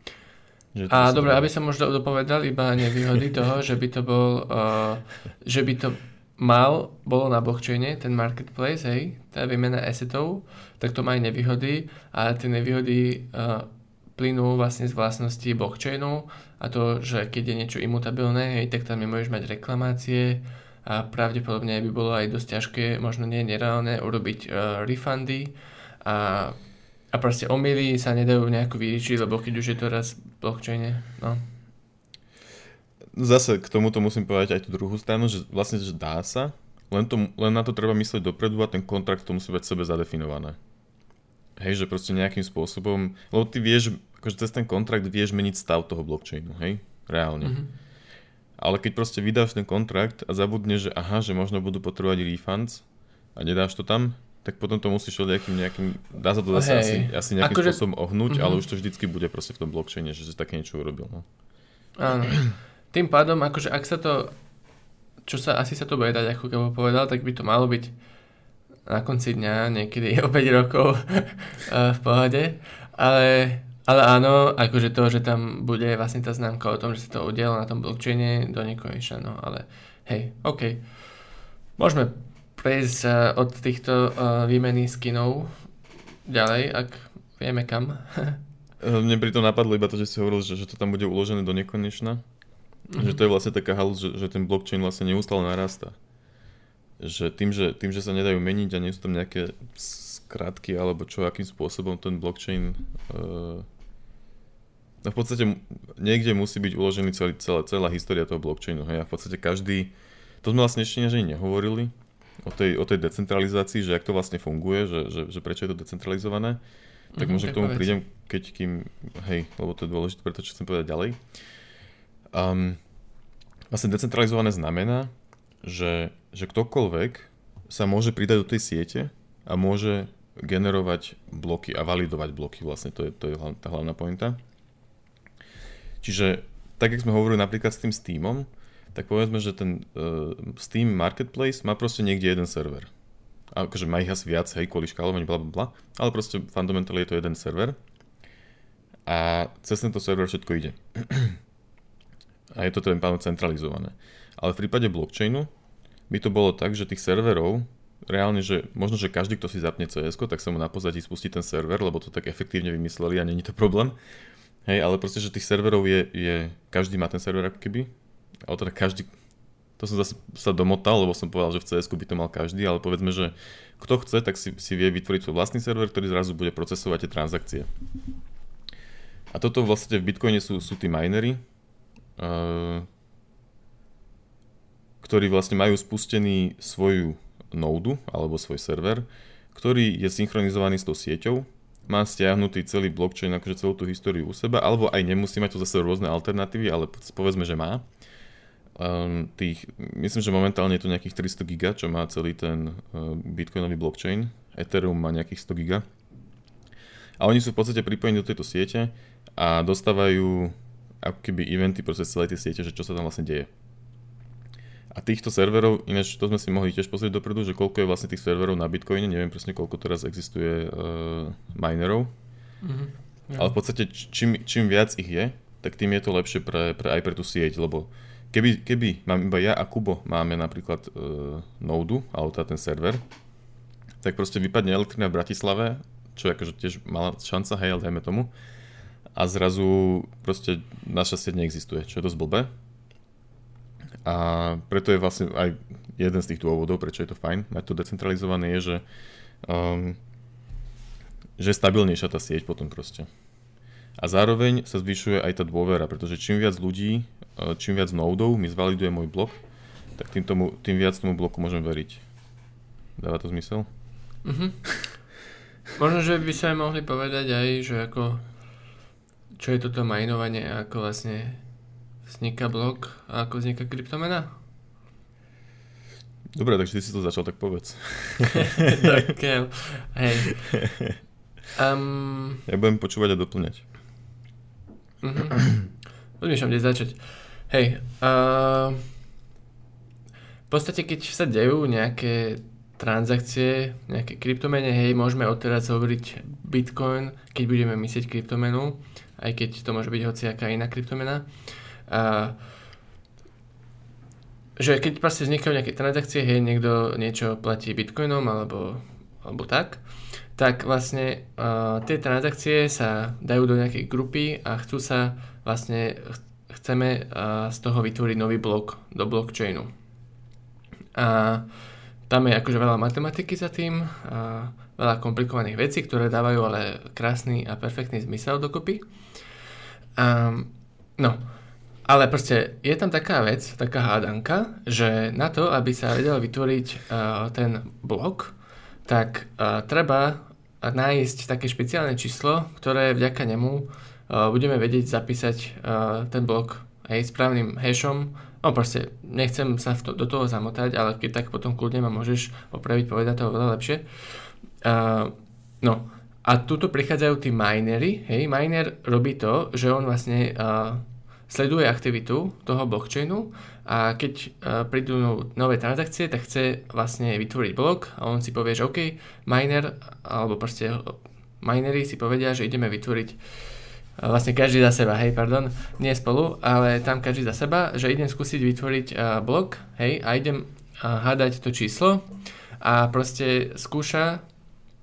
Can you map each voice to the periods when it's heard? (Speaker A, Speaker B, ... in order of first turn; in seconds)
Speaker A: 0.7-1.5, 33.1-40.6, 41.6-47.6, 48.6-52.8, 53.4-61.2, 88.8-92.2, 93.0-96.0, 97.0-103.7, 105.0-111.9, 112.4-116.6, 117.2-121.2, 122.3-122.8, 123.7-125.1, 125.6-134.4, 136.0-142.9, 143.5-147.8, 149.1-151.4, 152.5-155.5, 156.1-164.0, 164.7-167.9, 168.5-169.1, 169.8-177.7, 179.3-181.4, 182.2-182.9, 185.0-197.8, 198.8-205.8, 207.2-213.5, 214.9-222.1, 223.4-233.0, 234.0-238.3, 239.2-242.5, 244.1-248.8, 249.4-250.0, 251.4-253.1, 254.0-259.4, 260.0-262.0, 263.0-263.7, 276.4-279.0, 280.3-280.9, 282.5-283.6
Speaker B: 0.9-26.6, 27.1-31.4, 47.4-47.7, 56.5-58.6, 62.0-64.3, 65.2-67.9, 68.9-80.8, 81.8-85.5, 86.3-88.4, 92.9-93.2, 117.2-118.0, 222.6-223.5, 264.2-264.6, 265.8-268.2, 269.4-271.4, 272.1-274.3, 278.3-280.4, 281.6-282.4, 285.0-285.6, 286.2-288.8, 290.5-301.3, 301.9-302.4, 304.6-309.8, 310.4-319.7, 320.9-321.5, 322.1-328.9, 330.0-331.2, 331.9-373.2, 374.0-384.2